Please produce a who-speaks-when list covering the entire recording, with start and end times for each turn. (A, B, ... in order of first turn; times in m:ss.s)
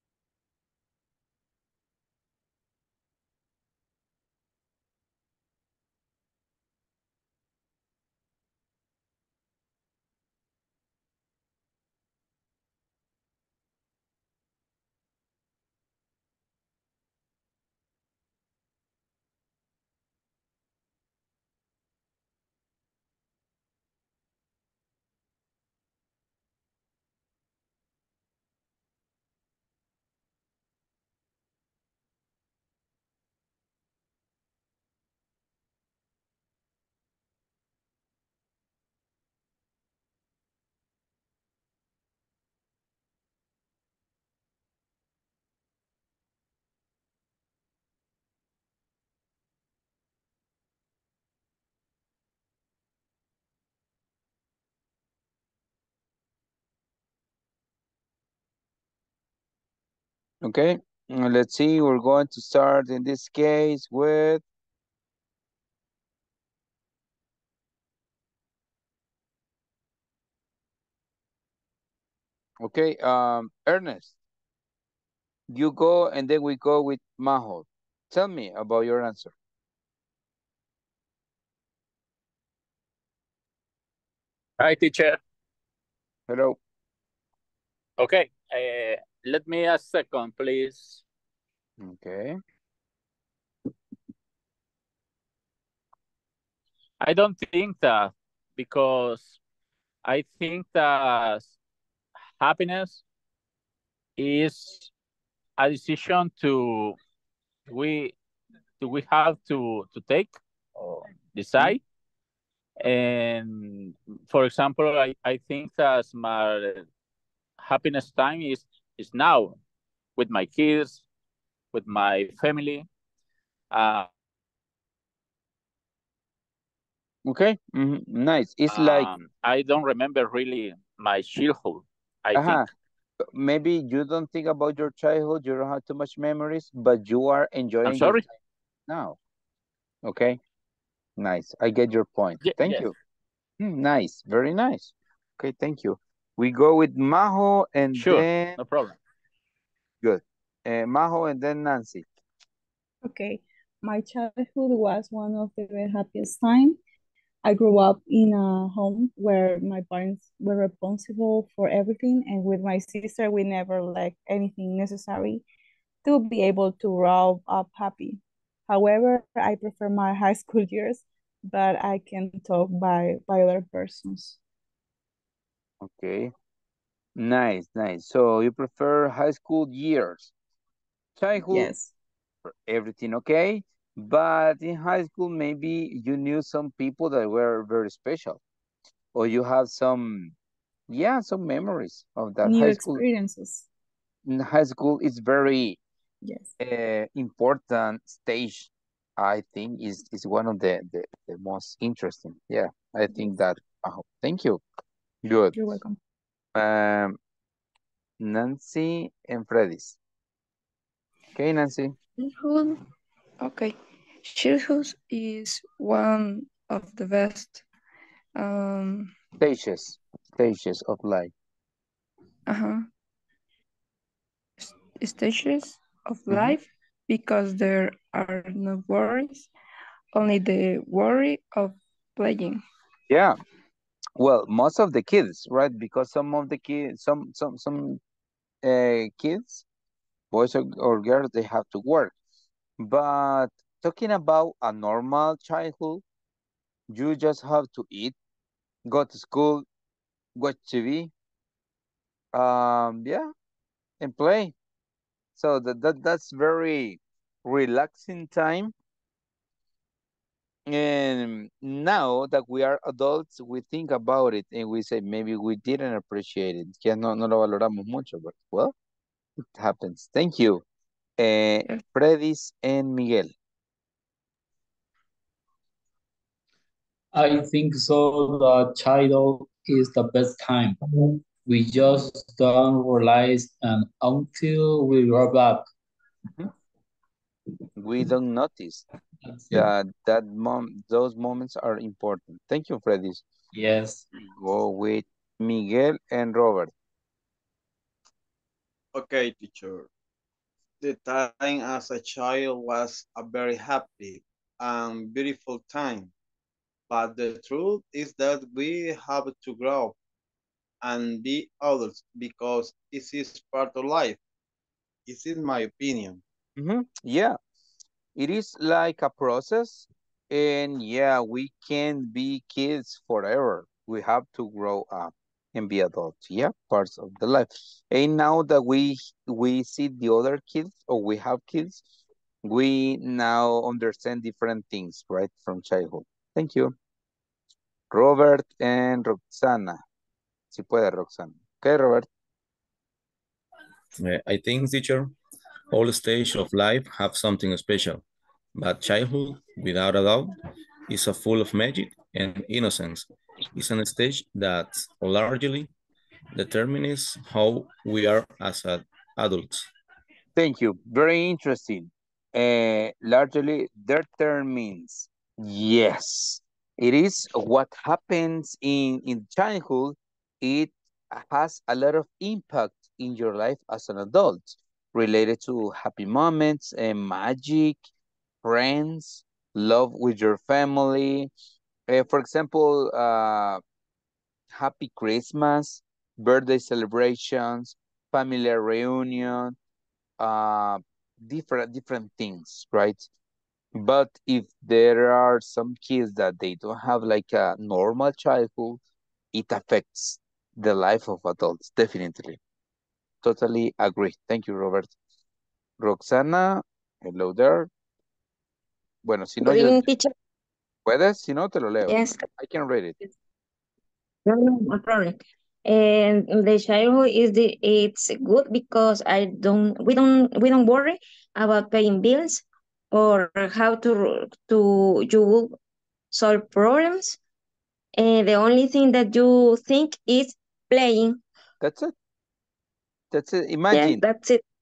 1:00.4-1:04.4 A
1:12.6-1:14.1 A
1:15.5-1:19.3 A
1:24.6-1:25.2 B
1:26.3-1:26.6 A
1:28.0-1:31.0 B
1:31.8-1:32.4 A
1:37.0-1:39.4 B
1:40.0-1:41.5 B
1:42.3-1:43.0 B
1:44.2-1:44.9 B
1:45.6-1:47.0 B
1:47.7-1:48.1 B
1:48.8-1:51.8 B
1:52.8-1:56.9 B
1:57.6-1:59.6 B
2:00.2-2:01.0 B
2:01.7-2:02.8 B
2:03.7-2:04.1 B
2:07.2-2:09.1 A
2:08.7-2:12.6 B
2:12.3-2:12.7 A
2:13.2-2:18.3 A
2:17.8-2:18.2 B
2:18.9-2:19.2 A
2:20.0-2:20.4 A
2:21.2-2:22.9 A
2:22.4-2:22.9 B
2:23.6-2:28.6 A
2:28.0-2:29.0 B
2:30.0-2:32.0 A
2:33.0-2:36.8 C
2:37.4-2:45.4 C
2:46.0-2:54.4 C
2:55.8-2:56.3 A
2:57.2-3:00.3 A
3:01.2-3:01.7 A
3:01.4-3:01.9 C
3:02.4-3:08.4 A
3:09.1-3:10.3 A
3:10.9-3:13.0 A
3:12.4-3:13.6 C
3:14.2-3:15.8 A
3:16.6-3:24.6 A
3:25.2-3:25.7 A
3:25.5-3:26.0 C
3:26.5-3:27.2 A
3:28.2-3:30.0 A
3:31.3-3:31.9 A
3:32.2-3:32.8 D
3:33.4-3:37.6 D
3:38.3-3:39.1 D
3:39.4-3:41.3 A
3:42.5-3:42.8 D
3:44.6-3:49.5 D
3:46.3-3:46.6 A
3:50.1-3:52.6 D
3:53.1-3:53.4 A
3:54.2-3:58.0 A
3:58.6-3:59.6 A
4:00.3-4:02.1 A
4:02.8-4:06.0 A
4:06.9-4:08.1 A
4:08.9-4:09.6 A
4:10.4-4:11.1 A
4:12.3-4:13.3 A
4:14.0-4:14.5 A
4:15.4-4:18.7 A
4:20.7-4:28.7 A
4:29.4-4:30.6 A
4:31.2-4:33.3 A
4:37.1-4:45.6 E
4:47.8-4:48.8 A
4:49.5-4:53.2 A
4:53.5-4:54.1 E
4:54.2-4:56.7 A
4:58.9-4:59.9 F
5:00.8-5:06.1 F
5:06.9-5:10.0 F
5:10.8-5:14.2 F
5:15.1-5:16.2 F
5:16.6-5:17.4 A
5:18.2-5:31.8 A
5:32.4-5:36.7 A
5:37.9-5:39.8 A
5:40.5-5:42.0 A
5:44.0-5:45.1 G
5:45.7-5:48.0 G
5:48.5-5:50.3 G
5:50.9-5:55.7 G
5:56.3-5:59.7 G
6:00.4-6:17.8 A
6:18.4-6:21.3 A
6:21.9-6:23.6 A
6:24.5-6:29.5 A
6:30.2-6:33.1 A
6:33.7-6:38.8 A
6:39.3-6:42.4 A
6:43.2-6:44.9 A
6:45.8-6:47.7 A
6:49.0-6:49.8 A
6:49.4-6:50.1 H
6:50.8-6:53.0 A
6:51.9-6:52.2 H
6:54.2-7:05.6 H
7:06.1-7:07.2 H
7:08.0-7:11.2 H
7:11.6-7:11.9 A
7:13.1-7:14.0 A
7:13.7-7:14.4 H